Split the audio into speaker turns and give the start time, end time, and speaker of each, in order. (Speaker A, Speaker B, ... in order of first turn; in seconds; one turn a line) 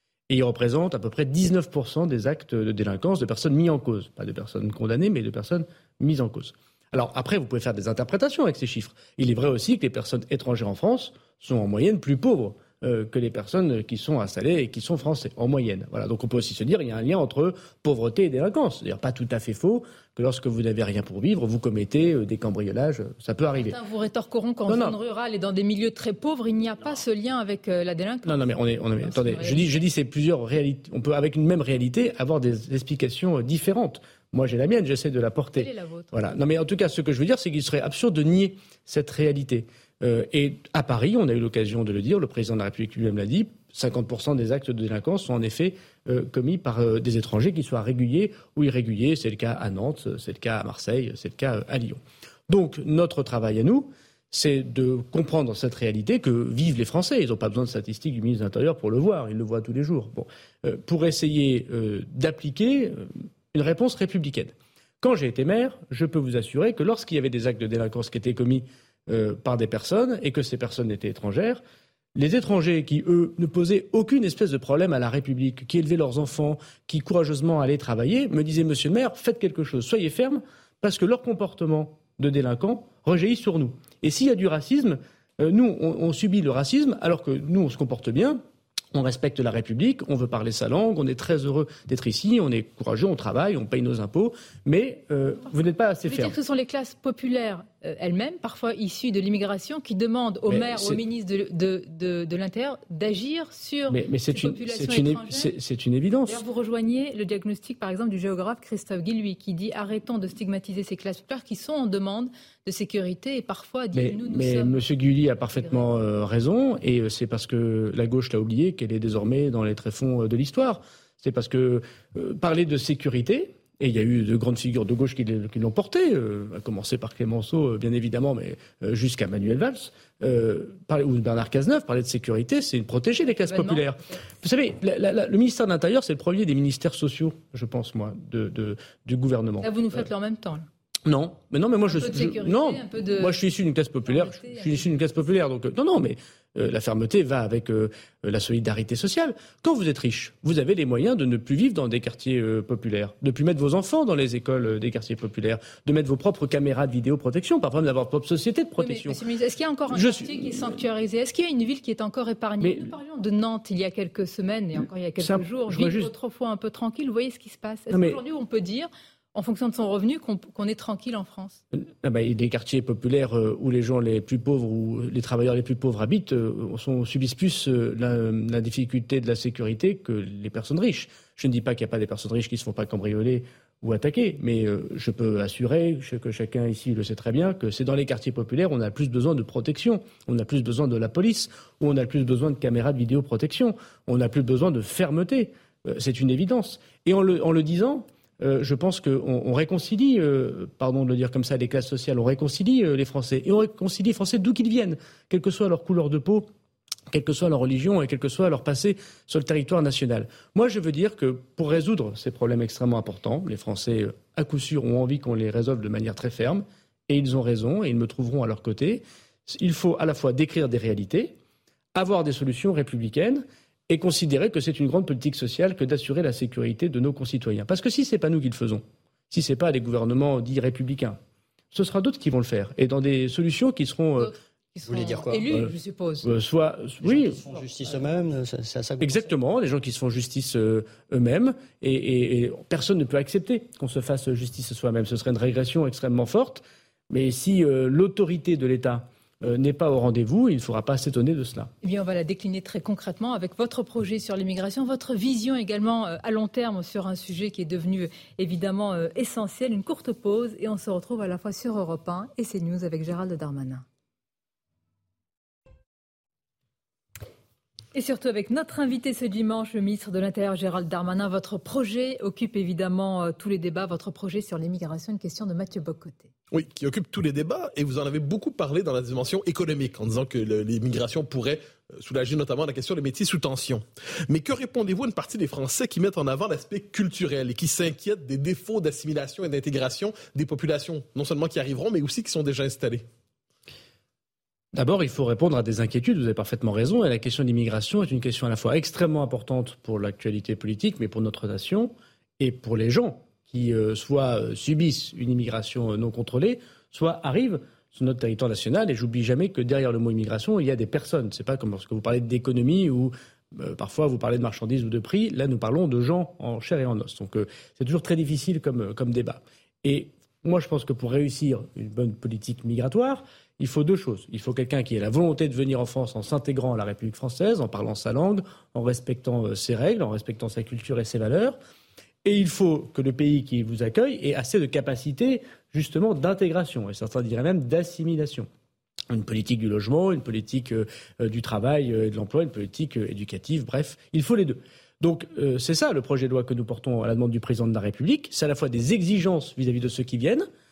Speaker A: 0.3-23.8
Speaker B: 23.5-28.4
Speaker A: 24.7-25.0
Speaker A: 28.2-71.6
Speaker B: 29.0-29.6
Speaker B: 35.5-36.1
Speaker A: 72.1-88.4
Speaker A: 88.9-96.3
Speaker B: 96.0-105.5
Speaker A: 100.5-101.0
Speaker A: 103.9-106.4
Speaker B: 106.3-115.9
Speaker A: 113.9-140.1
Speaker B: 133.4-134.2
Speaker B: 139.6-140.7
Speaker A: 141.1-159.2
Speaker B: 141.9-143.3
Speaker B: 144.1-144.9
Speaker B: 158.8-171.6
Speaker A: 159.9-160.8
Speaker A: 162.6-162.9
Speaker A: 165.2-166.1
Speaker A: 167.9-168.2
Speaker A: 171.7-206.5
Speaker A: 207.1-221.4
Speaker A: 221.9-231.2
Speaker A: 231.7-234.3
Speaker B: 234.2-236.3
Speaker C: 234.9-235.4
Speaker A: 236.2-237.4
Speaker C: 237.0-239.3
Speaker A: 239.0-251.7
Speaker B: 251.8-263.8
Speaker B: 267.9-276.3
Speaker D: 276.5-293.0
Speaker A: 294.7-331.6
Speaker A: 332.2-338.5
Speaker A: 339.1-350.4